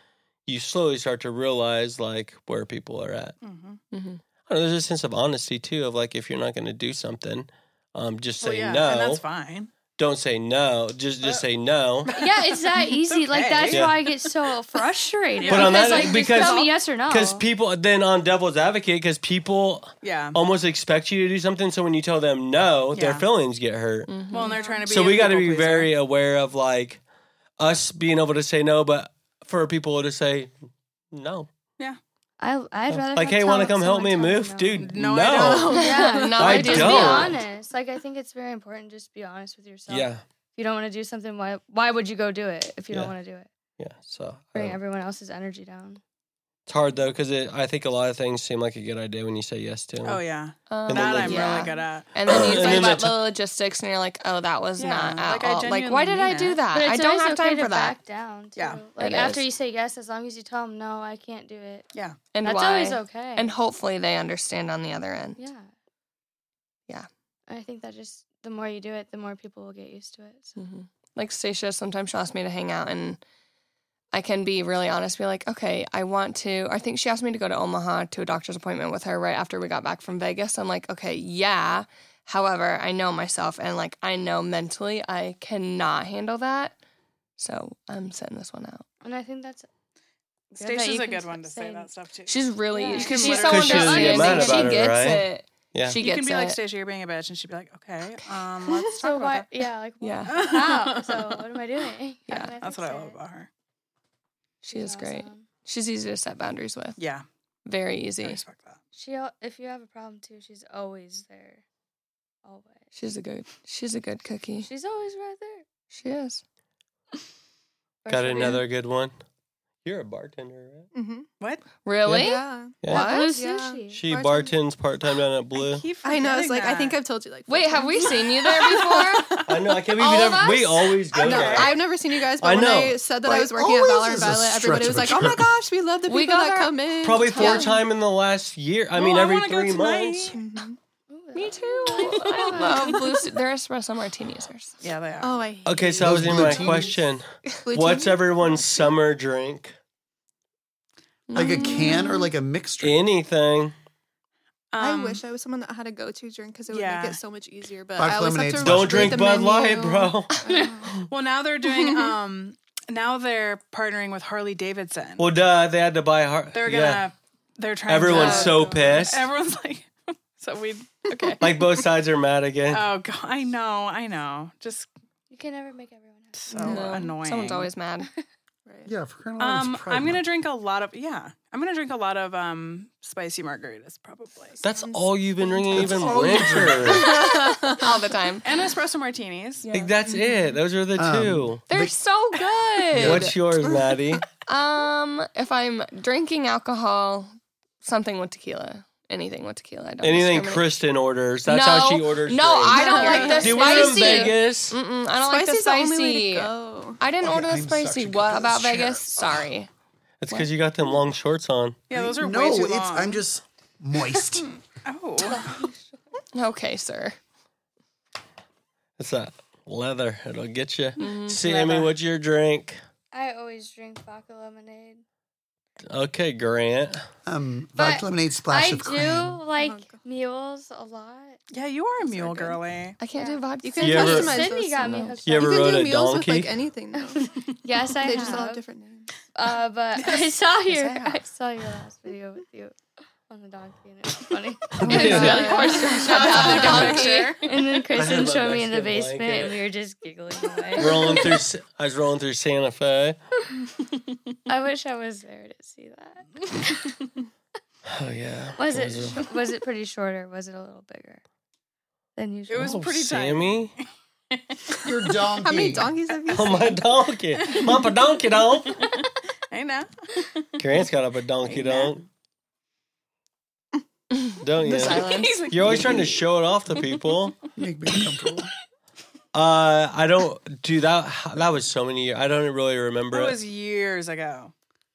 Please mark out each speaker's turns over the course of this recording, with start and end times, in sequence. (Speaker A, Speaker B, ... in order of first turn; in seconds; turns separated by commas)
Speaker A: 0.5-3.4, Speaker B: 3.4-3.8, Speaker C: 3.9-4.2, Speaker A: 4.5-9.2, Speaker B: 8.4-9.7, Speaker A: 10.0-12.1, Speaker B: 12.1-13.9, Speaker D: 12.1-17.4, Speaker A: 13.7-13.9, Speaker B: 15.4-16.4, Speaker A: 15.5-24.1, Speaker E: 16.2-16.7, Speaker B: 20.0-20.4, Speaker B: 22.9-23.2, Speaker C: 24.1-24.6, Speaker B: 24.3-25.9, Speaker D: 24.5-24.8, Speaker E: 24.5-24.8, Speaker A: 24.9-27.0, Speaker A: 27.6-30.5, Speaker A: 31.1-31.5, Speaker D: 32.4-34.9, Speaker A: 32.9-35.8, Speaker B: 34.8-35.9, Speaker E: 35.2-36.5, Speaker D: 35.7-43.5, Speaker C: 35.8-37.4, Speaker A: 36.3-37.4, Speaker A: 39.9-40.2, Speaker A: 43.8-44.8, Speaker D: 44.5-46.0, Speaker A: 46.7-50.2, Speaker B: 50.0-52.9, Speaker C: 50.7-58.0, Speaker A: 50.9-51.6, Speaker D: 51.4-51.7, Speaker A: 52.2-53.2, Speaker B: 54.8-56.6, Speaker D: 56.7-61.9, Speaker B: 58.5-58.9, Speaker C: 59.0-59.5, Speaker C: 62.3-65.4, Speaker D: 62.4-63.5, Speaker D: 65.4-65.7, Speaker D: 67.5-70.5, Speaker C: 70.6-73.2, Speaker C: 74.1-86.7, Speaker C: 87.4-88.8, Speaker D: 89.0-89.7, Speaker B: 90.5-94.6, Speaker D: 90.6-91.9, Speaker C: 92.3-96.6, Speaker D: 92.7-94.9, Speaker A: 93.5-96.0, Speaker B: 95.9-99.5, Speaker D: 99.0-103.2, Speaker C: 100.0-100.4, Speaker B: 100.2-101.4, Speaker B: 102.3-103.5, Speaker C: 104.6-107.0, Speaker D: 104.7-105.5, Speaker B: 107.0-107.2, Speaker C: 107.7-108.4, Speaker B: 108.2-108.8, Speaker D: 108.9-111.6, Speaker D: 112.4-112.9, Speaker C: 112.9-114.7, Speaker D: 114.6-115.6, Speaker C: 115.9-116.4, Speaker D: 118.0-118.6, Speaker A: 118.1-119.1, Speaker A: 119.8-120.9, Speaker E: 120.9-121.3, Speaker C: 121.8-123.3, Speaker E: 122.0-124.5, Speaker A: 122.8-123.0, Speaker D: 122.9-124.0, Speaker A: 123.9-125.8, Speaker B: 125.6-127.0, Speaker E: 126.0-129.5, Speaker C: 127.5-129.4, Speaker A: 129.4-131.8, Speaker C: 129.9-131.5, Speaker B: 131.2-131.8, Speaker E: 131.2-137.8, Speaker A: 132.4-133.0, Speaker F: 133.2-135.6, Speaker C: 136.0-137.8, Speaker A: 137.0-140.3, Speaker B: 138.9-140.4, Speaker E: 140.3-140.8, Speaker D: 141.1-143.0, Speaker C: 141.3-144.8, Speaker B: 141.9-143.1, Speaker B: 144.8-145.4, Speaker E: 145.2-146.9, Speaker A: 145.6-149.8, Speaker F: 146.0-147.0, Speaker E: 147.6-148.9, Speaker C: 151.3-152.3, Speaker F: 151.3-153.0, Speaker E: 151.4-152.3, Speaker A: 152.8-153.7, Speaker B: 154.7-155.2, Speaker E: 154.8-161.1, Speaker B: 156.7-157.2, Speaker F: 158.0-159.4, Speaker A: 158.6-160.3, Speaker D: 160.5-160.9, Speaker B: 161.1-165.3, Speaker E: 161.6-162.1, Speaker A: 165.2-167.1, Speaker B: 166.5-171.5, Speaker A: 167.9-169.3, Speaker C: 168.0-168.8, Speaker A: 171.4-172.9, Speaker B: 172.7-174.9, Speaker D: 175.3-176.8, Speaker B: 176.3-177.7, Speaker C: 176.5-178.1, Speaker E: 178.7-178.9, Speaker F: 178.8-180.2, Speaker B: 179.4-184.6, Speaker E: 184.6-188.0, Speaker A: 184.6-187.2, Speaker F: 185.7-187.0, Speaker C: 186.9-188.5, Speaker B: 188.4-189.7, Speaker C: 189.6-189.9, Speaker A: 189.7-191.6, Speaker E: 190.0-190.6, Speaker F: 190.9-191.9, Speaker C: 191.7-193.3, Speaker F: 192.9-193.3, Speaker A: 193.0-194.2, Speaker E: 193.6-194.0, Speaker C: 194.4-197.3, Speaker C: 197.8-200.7, Speaker A: 200.0-204.8, Speaker C: 201.5-209.7, Speaker E: 202.7-203.6, Speaker D: 202.8-204.4, Speaker B: 202.9-203.4, Speaker E: 205.2-207.0, Speaker F: 207.2-209.3, Speaker A: 210.2-211.8, Speaker B: 211.9-213.2, Speaker F: 211.9-214.5, Speaker B: 214.8-215.5, Speaker D: 215.3-215.7, Speaker C: 216.3-217.2, Speaker A: 219.0-222.8, Speaker C: 221.0-221.4, Speaker D: 221.4-221.8, Speaker D: 223.1-225.0, Speaker A: 225.9-227.1, Speaker F: 227.2-229.4, Speaker D: 227.8-231.4, Speaker E: 229.6-230.0, Speaker B: 231.5-233.0, Speaker D: 232.0-232.6, Speaker C: 233.0-235.2, Speaker D: 233.1-235.9, Speaker E: 233.6-237.2, Speaker A: 233.8-234.3, Speaker A: 235.2-236.5, Speaker D: 237.6-238.6, Speaker E: 238.0-239.1, Speaker D: 239.3-242.8, Speaker B: 239.9-241.2, Speaker D: 243.3-251.4, Speaker A: 244.7-245.6, Speaker C: 244.8-247.3, Speaker B: 244.9-247.6, Speaker E: 245.7-247.3, Speaker A: 247.9-249.6, Speaker A: 250.8-253.2, Speaker D: 254.5-256.9, Speaker A: 257.9-259.2, Speaker D: 258.6-261.2, Speaker D: 262.1-262.8, Speaker B: 262.5-264.8, Speaker A: 262.5-263.8, Speaker F: 264.8-265.9, Speaker E: 265.3-266.9, Speaker A: 266.3-268.8, Speaker B: 267.4-267.9, Speaker B: 268.7-270.6, Speaker A: 270.6-272.1, Speaker B: 271.4-271.9, Speaker C: 274.2-275.8, Speaker A: 274.4-277.4, Speaker B: 274.7-277.1, Speaker F: 277.6-278.5, Speaker A: 279.3-283.4, Speaker B: 283.1-284.5